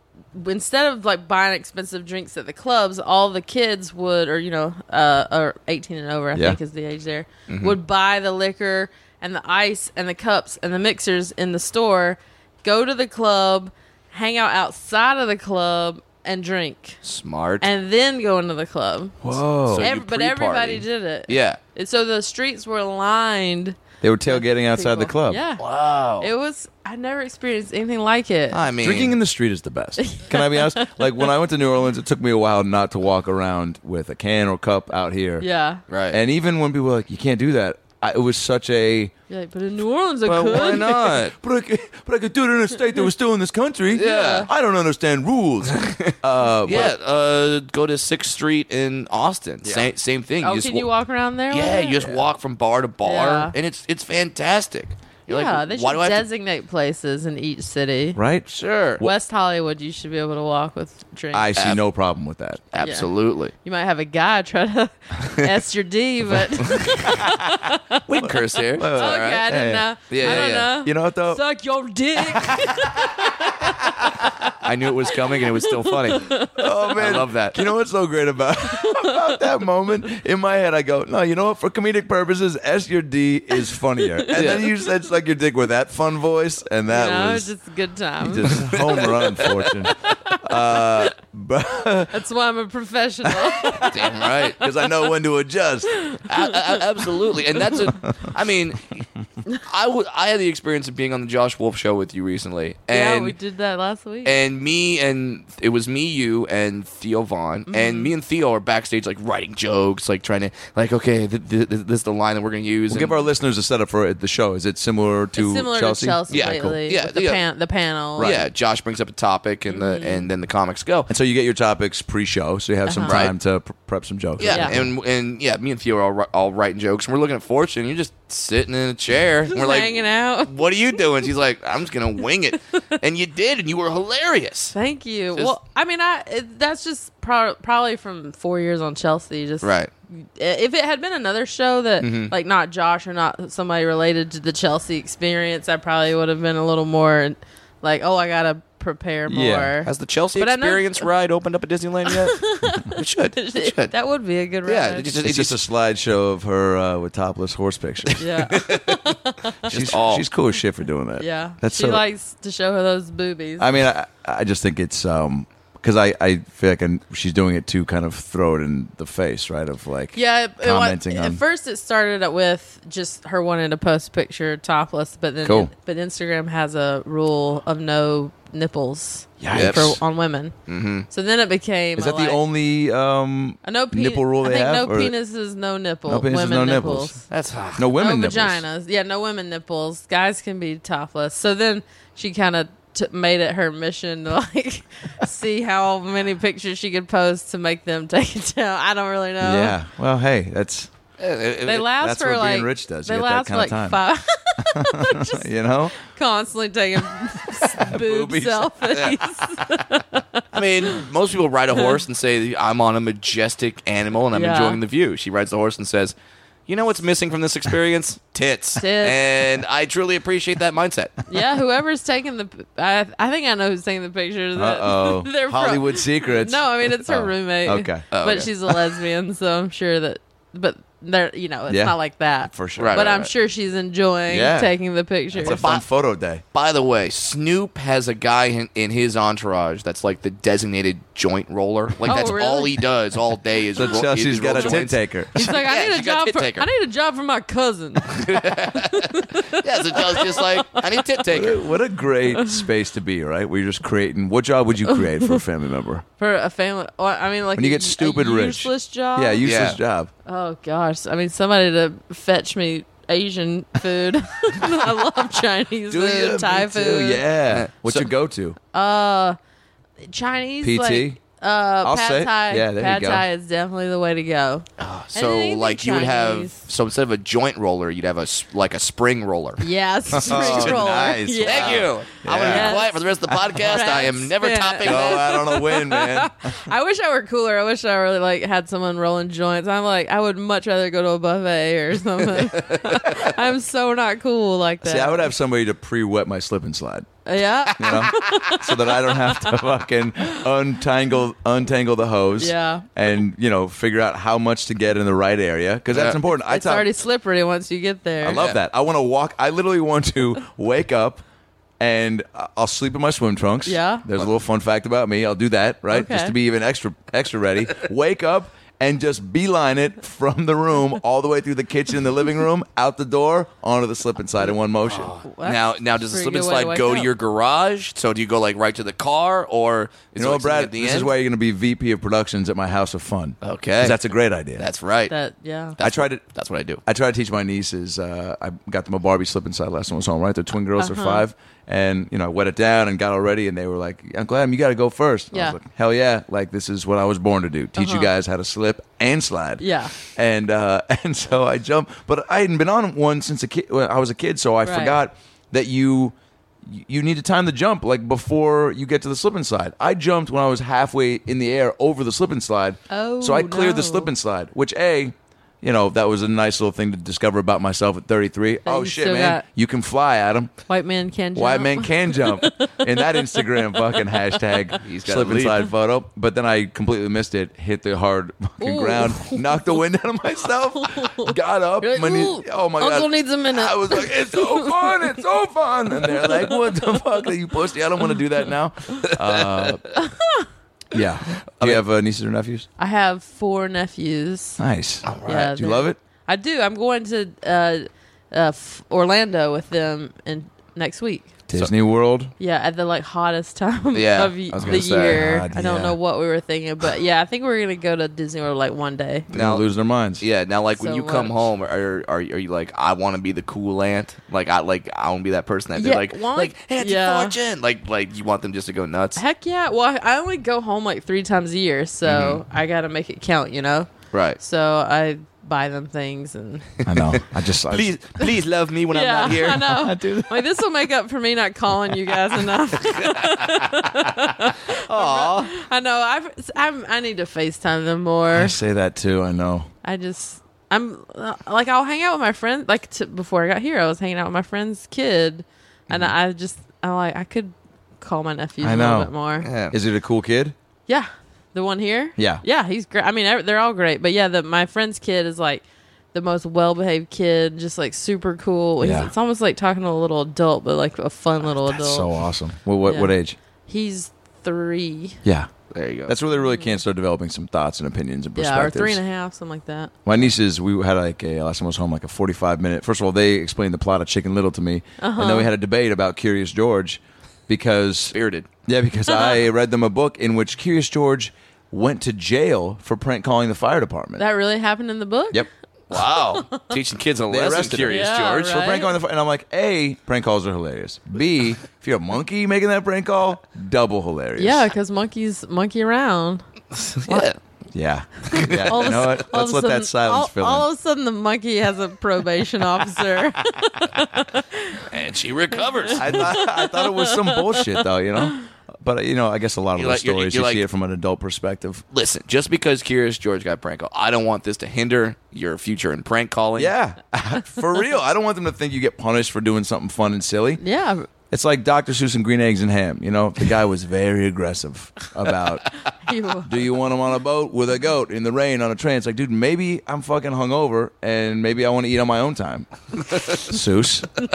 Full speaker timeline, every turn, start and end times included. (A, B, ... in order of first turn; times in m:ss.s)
0:00.3-0:17.0 A
0:07.5-0:07.8 B
0:17.0-0:17.7 B
0:17.6-0:19.2 A
0:19.2-0:19.9 C
0:19.7-0:21.6 B
0:19.7-0:25.6 A
0:24.0-0:25.4 C
0:25.6-0:26.3 B
0:26.2-0:28.6 A
0:28.5-0:29.1 B
0:28.8-0:35.4 C
0:30.0-0:30.9 A
0:35.4-0:35.8 A
0:35.9-0:36.2 B
0:36.1-0:39.1 C
0:39.3-0:41.2 A
0:40.2-0:41.3 B
0:41.3-0:46.9 C
0:43.9-0:44.5 B
0:43.9-0:44.5 A
0:45.7-0:50.9 B
0:50.4-0:52.0 A
0:51.5-0:56.2 B
0:52.0-0:52.2 C
0:53.0-0:53.5 A
0:55.3-0:58.2 A
0:58.1-0:58.5 C
0:58.5-0:59.0 B
0:59.0-1:01.5 A
1:01.3-1:02.7 C
1:02.7-1:03.5 B
1:02.8-1:08.0 A
1:06.6-1:07.3 B
1:08.0-1:09.4 B
1:08.2-1:11.4 C
1:08.9-1:14.5 A
1:10.1-1:10.7 B
1:12.4-1:13.1 C
1:14.6-1:16.4 B
1:15.1-1:16.9 A
1:16.5-1:27.5 C
1:16.9-1:17.6 B
1:18.6-1:19.4 A
1:24.2-1:24.6 A
1:24.3-1:24.7 B
1:26.9-1:29.1 A
1:28.2-1:32.1 C
1:28.5-1:29.6 B
1:29.9-1:30.8 A
1:32.1-1:34.6 A
1:33.2-1:34.0 C
1:33.8-1:34.6 B
1:34.6-1:35.9 C
1:36.0-1:36.5 A
1:36.3-1:39.0 B
1:37.9-1:38.3 C
1:39.6-1:43.3 B
1:42.9-1:44.4 A
1:44.2-1:53.1 B
1:47.7-1:48.1 A
1:52.9-1:56.8 C
1:55.3-1:58.4 A
1:56.3-1:57.4 B
1:58.2-1:58.5 C
1:58.2-2:01.1 B
1:59.7-2:00.3 A
2:01.1-2:04.9 C
2:02.8-2:03.2 A
2:03.0-2:03.3 B
2:04.4-2:14.7 B
2:04.4-2:04.7 A
2:09.5-2:10.5 A
2:14.7-2:31.1 A
2:19.6-2:19.9 B
2:22.0-2:22.3 B
2:29.3-2:29.7 C
2:29.8-2:33.9 B
2:32.1-2:35.1 A
2:34.6-2:35.6 B
2:35.2-2:38.2 C
2:38.2-2:40.2 B
2:38.2-2:39.6 A
2:39.7-2:42.0 C
2:41.2-2:43.7 A
2:43.6-2:51.4 C
2:50.1-3:00.5 A
2:55.4-2:55.7 C
2:59.4-3:00.0 C
2:59.5-2:59.9 B
3:00.7-3:01.0 B
3:01.1-3:02.4 A
3:02.0-3:05.1 C
3:03.6-3:07.2 A
3:06.1-3:07.2 C
3:07.3-3:07.9 B
3:07.8-3:08.6 C
3:08.0-3:19.7 A
3:19.4-3:20.9 C
3:21.2-3:21.9 B
3:21.6-3:30.4 A
3:21.9-3:24.0 C
3:24.6-3:25.9 C
3:27.6-3:28.7 C
3:28.9-3:29.2 B
3:30.5-3:36.1 B
3:34.3-3:34.8 A
3:36.7-3:41.2 B
3:38.8-3:39.2 A
3:41.3-3:55.6 A
3:44.6-3:48.0 C
3:48.1-3:48.5 B
3:51.7-3:51.9 C
3:52.5-3:53.1 C
3:52.8-3:53.3 B
3:54.3-3:54.7 C
3:55.3-3:56.4 C
3:55.4-3:55.8 B
3:56.5-4:06.7 B
4:02.0-4:02.8 A
4:03.7-4:05.4 C
4:04.5-4:10.8 A
4:08.0-4:11.6 B
4:11.3-4:16.0 C
4:12.4-4:12.6 A
4:14.9-4:15.4 A
4:16.2-4:19.4 A
4:17.6-4:20.1 C
4:19.4-4:19.8 B
4:20.2-4:27.2 A
4:25.9-4:28.6 C
4:27.5-4:28.1 B
4:28.7-4:29.4 A
4:30.0-4:36.6 A
4:30.6-4:31.2 C
4:31.8-4:33.2 C
4:34.8-4:40.8 B
4:39.6-4:55.3 A
4:40.1-4:43.4 C
4:41.4-4:45.3 B
4:44.8-4:46.6 C
4:52.3-4:53.3 B
4:54.8-4:57.1 C
4:57.2-4:59.4 A
4:57.8-5:06.9 C
4:57.8-4:58.5 B
5:02.4-5:02.9 A
5:05.9-5:06.2 B
5:06.4-5:08.4 A
5:08.2-5:11.2 C
5:08.3-5:08.6 B
5:11.8-5:25.1 C
5:13.6-5:14.0 A
5:15.9-5:16.3 A
5:24.8-5:31.1 B
5:25.2-5:27.1 A
5:30.2-5:34.7 C
5:33.4-5:34.0 B
5:34.6-5:35.1 B
5:35.1-5:35.8 A
5:35.8-5:36.8 B
5:35.8-5:36.2 C
5:36.8-6:10.5 C
5:40.8-5:41.2 A
5:45.3-5:45.6 A
5:47.8-5:48.1 A
5:49.6-5:49.9 A
5:54.6-5:55.0 A
6:02.9-6:04.1 A
6:08.6-6:09.4 A
6:10.7-6:14.6 A
6:11.3-6:29.9 C
6:14.8-6:15.7 B
6:18.6-6:19.8 A
6:20.7-6:25.1 A
6:26.0-6:26.6 A
6:29.1-6:29.7 B
6:29.9-6:30.5 A
6:30.9-6:32.6 C
6:32.8-6:34.6 A
6:34.6-6:36.0 C
6:35.0-6:35.5 B
6:35.2-6:41.3 A
6:41.5-6:42.3 C
6:42.4-6:49.3 A
6:43.9-6:45.2 B
6:44.5-6:46.0 C
6:49.3-6:49.6 B
6:49.3-6:50.2 C
6:50.2-6:59.2 B
6:50.8-6:51.3 A
6:55.8-6:57.4 A
6:59.2-7:06.7 A
7:02.0-7:02.4 B
7:04.1-7:04.4 B
7:06.8-7:09.7 B
7:06.8-7:07.9 C
7:08.9-7:18.6 A
7:09.5-7:10.5 C
7:12.9-7:13.8 B
7:14.9-7:15.5 C
7:18.3-7:19.7 C
7:19.8-7:29.5 A
7:28.6-7:29.1 C
7:29.4-7:29.8 B
7:29.7-7:30.5 C
7:30.9-7:42.1 A
7:32.2-7:32.4 C
7:38.8-7:39.1 C
7:41.5-7:43.4 C
7:42.8-7:43.1 A
7:43.7-7:45.2 A
7:45.2-7:45.5 C
7:45.7-7:46.1 B
7:46.1-7:49.0 C
7:46.4-7:46.7 A
7:48.4-7:49.9 A
7:50.0-7:58.1 C
7:55.0-7:55.5 A
7:58.1-7:58.5 B
7:58.6-8:04.2 C
7:59.1-7:59.4 A
8:04.2-8:06.6 A
8:05.9-8:08.5 B
8:07.3-8:14.7 C
8:07.9-8:08.9 A
8:14.4-8:16.4 A
8:16.7-8:17.4 B
8:17.7-8:20.6 C
8:18.3-8:18.9 B
8:18.7-8:24.8 A
8:24.9-8:26.3 B
8:25.8-8:28.4 A
8:25.9-8:31.8 C
8:29.7-8:30.6 B
8:31.9-8:36.7 B
8:36.6-8:40.6 C
8:40.6-8:41.1 A
8:41.3-8:45.6 C
8:46.0-8:46.5 A
8:46.4-8:52.7 C
8:53.4-8:54.2 C